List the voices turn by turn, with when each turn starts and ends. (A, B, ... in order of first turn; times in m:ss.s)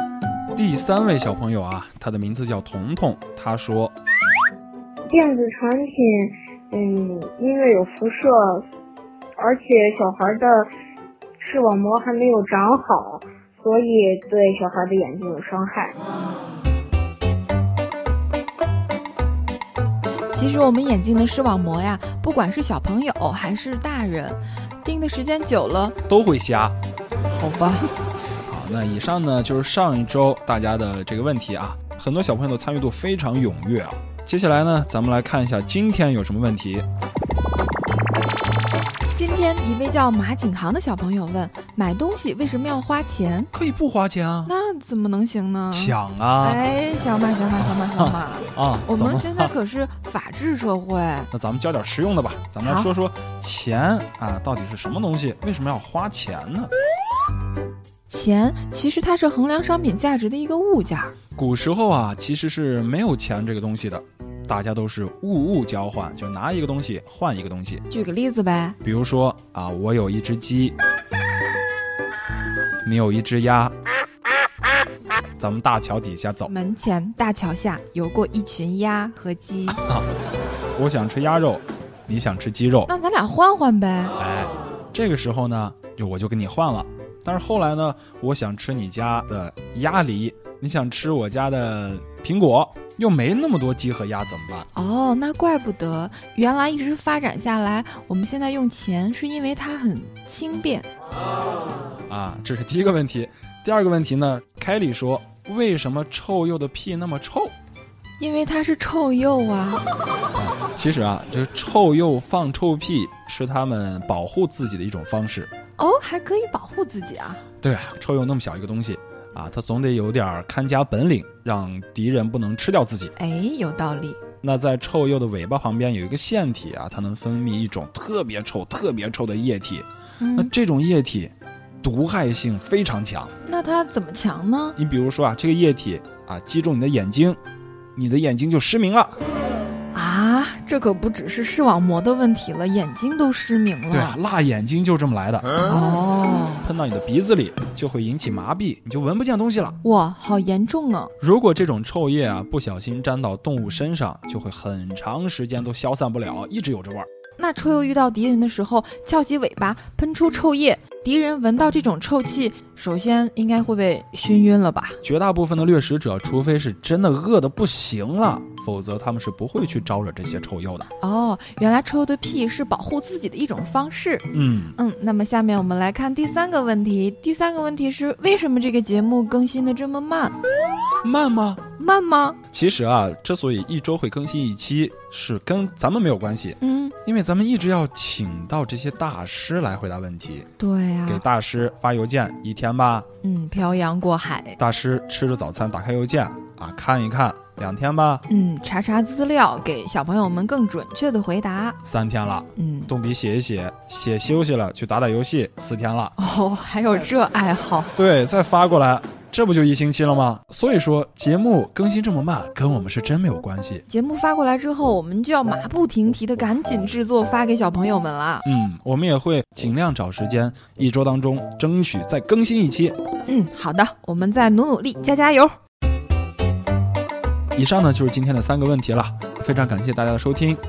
0:00.5-0:03.9 A
0:05.1-0:08.6 B
0:09.4-0:10.7 B
0:11.4-0:15.9 B
0:20.3-0:26.0 C
0:26.1-0:26.8 A
0:27.3-0:27.9 C
0:28.4-0:36.8 A
0:39.1-0:43.5 C
0:43.5-0:44.5 A
0:44.4-0:51.3 C
0:45.7-0:46.6 A
0:47.6-0:49.5 A
0:51.3-0:56.7 A
0:52.6-0:52.9 C
0:58.1-1:01.1 C
1:01.3-1:07.8 A
1:07.9-1:08.8 C
1:08.8-1:10.7 A
1:12.8-1:13.7 A
1:15.4-1:16.5 A
1:16.4-1:19.8 C
1:20.8-1:22.9 A
1:22.9-1:24.1 C
1:24.2-1:34.7 A
1:34.7-1:40.9 C
1:42.1-1:47.5 A
1:48.2-1:49.8 C
1:50.4-1:55.5 A
1:55.8-1:57.4 C
1:57.6-2:03.1 A
2:03.2-2:04.2 C
2:04.4-2:13.3 A
2:10.2-2:10.5 C
2:13.4-2:14.8 C
2:14.8-2:17.4 A
2:18.0-2:19.2 A
2:19.9-2:24.2 C
2:23.9-2:25.6 A
2:25.6-2:26.7 C
2:26.6-2:29.8 A
2:29.8-2:31.1 C
2:31.2-2:37.1 A
2:37.4-2:45.0 C
2:45.0-2:50.9 A
2:51.0-3:00.3 C
2:54.3-2:54.7 A
3:01.0-3:01.6 A
3:01.8-3:02.4 C
3:02.5-3:10.5 A
3:06.6-3:06.9 C
3:10.6-3:11.2 C
3:11.0-3:13.1 A
3:13.2-3:14.6 C
3:14.6-3:18.2 A
3:18.3-3:21.8 C
3:21.8-3:26.1 A
3:22.6-3:22.9 C
3:26.2-3:27.9 C
3:28.0-3:33.8 A
3:33.9-3:38.4 C
3:38.4-3:43.0 A
3:43.2-3:45.5 C
3:47.5-3:50.6 A